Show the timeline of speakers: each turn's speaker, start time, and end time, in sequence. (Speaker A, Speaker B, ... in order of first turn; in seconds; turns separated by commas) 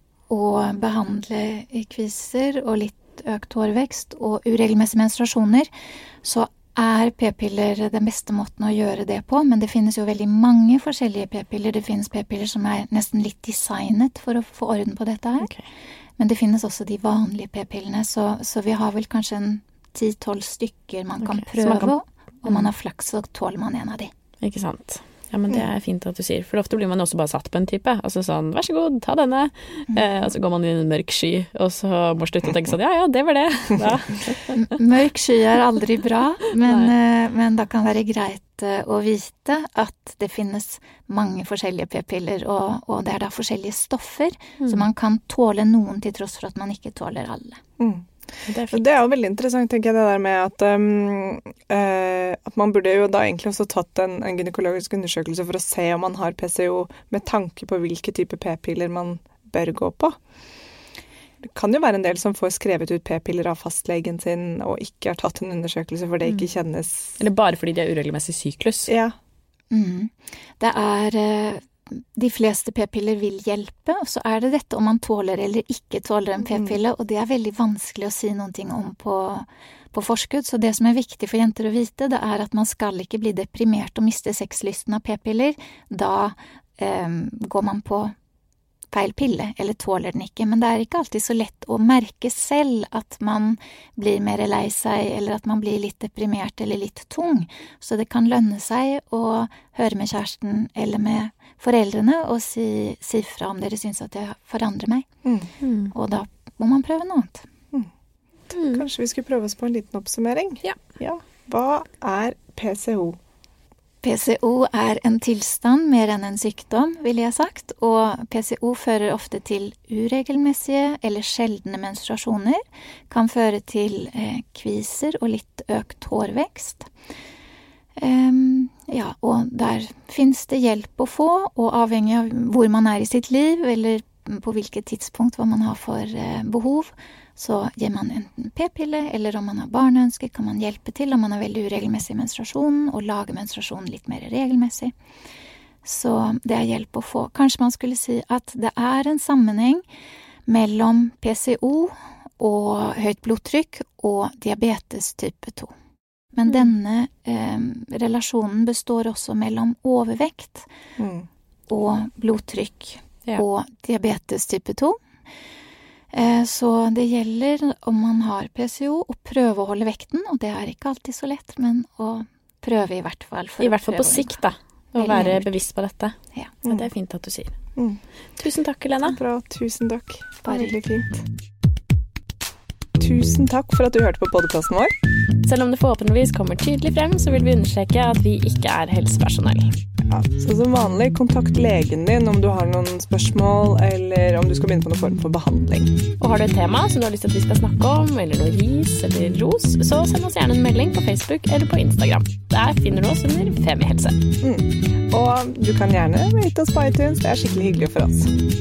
Speaker A: 0.3-5.7, Speaker A: 6.2-15.5, Speaker B: 15.4-15.7, Speaker A: 16.2-24.1, Speaker B: 21.2-21.9, Speaker B: 24.4-34.6, Speaker A: 29.9-30.3, Speaker A: 34.5-47.6, Speaker B: 44.6-44.9, Speaker C: 47.8-48.1, Speaker B: 48.5-48.8, Speaker C: 48.7-60.2, Speaker C: 61.4-67.2, Speaker B: 67.2-68.9, Speaker C: 68.9-69.2, Speaker A: 69.7-88.1, Speaker A: 88.9-105.1, Speaker C: 105.2-105.5, Speaker B: 105.6-105.9, Speaker A: 105.9-107.5, Speaker C: 108.5-113.2, Speaker B: 108.5-108.8, Speaker A: 114.0-126.9, Speaker A: 128.0-144.9, Speaker A: 145.8-149.8, Speaker A: 150.5-155.7, Speaker A: 156.3-160.7, Speaker C: 161.0-161.3, Speaker A: 161.7-165.0, Speaker A: 166.1-174.4, Speaker B: 173.6-177.6, Speaker A: 175.0-175.5, Speaker B: 178.4-179.2, Speaker C: 179.0-181.2, Speaker A: 180.4-180.8, Speaker C: 183.0-184.9, Speaker B: 185.4-189.7, Speaker C: 190.1-195.9, Speaker B: 196.2-204.2, Speaker C: 204.4-208.3